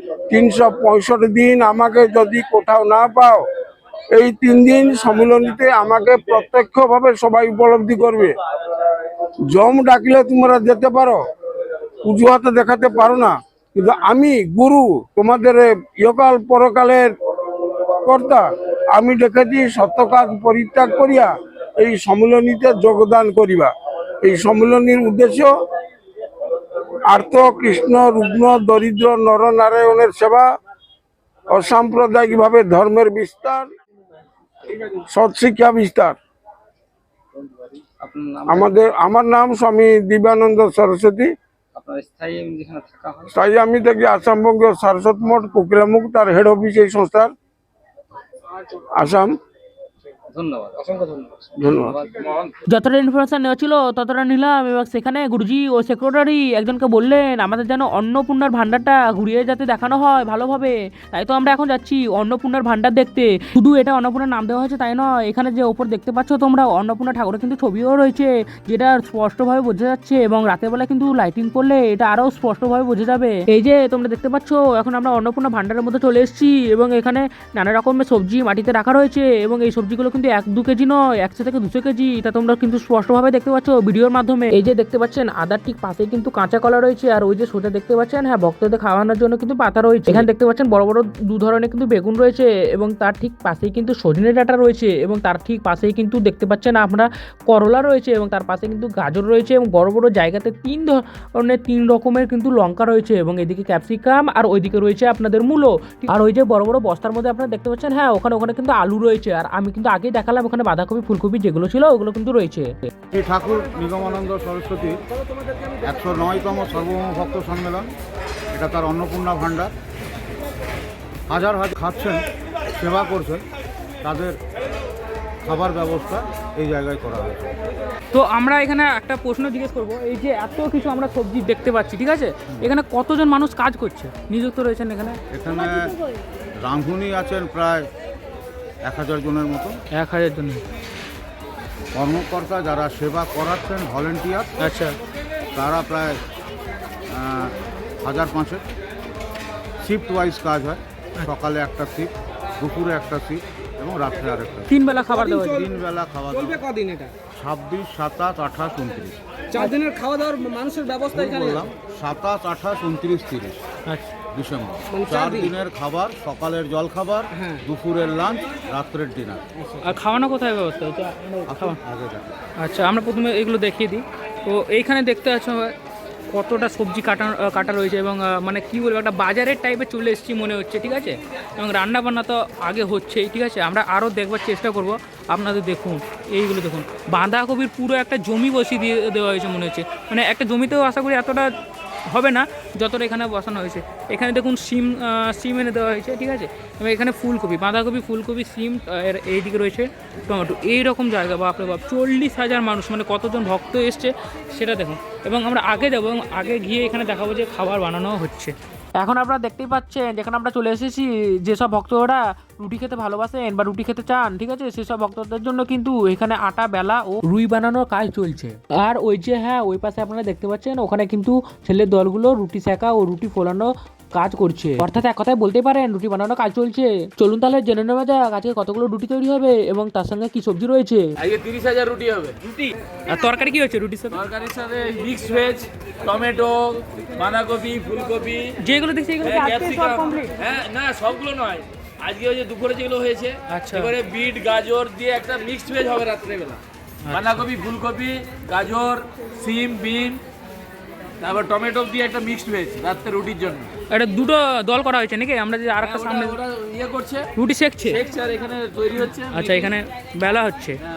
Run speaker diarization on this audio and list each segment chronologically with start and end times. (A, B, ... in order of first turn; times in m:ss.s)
0:00.3-0:03.4 A
0:04.1-0:08.4 A
0:09.5-0:11.2 A
0:12.0-0:17.1 A
0:18.0-0:25.5 A
0:27.1-0:30.5 A
0:31.5-0:33.7 A
0:34.8-0:36.2 A
0:38.0-0:38.8 B
0:38.5-0:41.3 A
0:41.8-0:43.4 B
0:43.3-0:47.3 A
0:49.0-0:49.3 A
0:50.3-0:52.5 B
0:51.6-0:52.0 A
0:52.7-1:52.8 C
1:53.1-1:55.0 D
1:55.8-1:57.9 D
1:58.5-1:59.7 D
2:01.3-2:03.4 D
2:04.0-2:04.4 D
2:05.4-2:07.5 D
2:08.1-2:15.2 E
2:12.5-2:12.7 D
2:15.3-2:16.0 D
2:16.6-2:17.9 D
2:18.8-2:19.8 D
2:19.9-2:20.6 E
2:22.0-2:24.7 D
2:24.6-2:25.0 E
2:25.5-2:26.2 D
2:27.1-2:28.6 D
2:29.8-2:34.7 D
2:34.7-2:35.6 E
2:35.3-2:36.6 D
2:36.7-2:37.1 B
2:37.4-2:39.2 D
2:39.6-2:41.5 B
2:41.1-2:43.6 D
2:44.3-2:49.4 D
2:45.0-2:45.4 B
2:49.8-2:51.8 E
2:51.5-2:52.4 D
2:52.6-2:55.8 E
2:56.3-3:11.5 E
3:12.1-3:28.5 E
3:29.0-3:51.1 C
3:51.2-3:52.7 F
3:53.1-3:54.2 E
3:54.1-3:58.5 F
3:58.6-4:00.3 E
3:59.2-4:06.6 F
4:03.5-4:04.0 E
4:07.1-4:07.4 E
4:07.1-4:10.2 F
4:11.2-4:13.7 F
4:13.9-4:16.4 E
4:15.8-4:17.2 F
4:17.4-4:18.1 E
4:17.9-4:19.7 F
4:19.3-4:20.8 E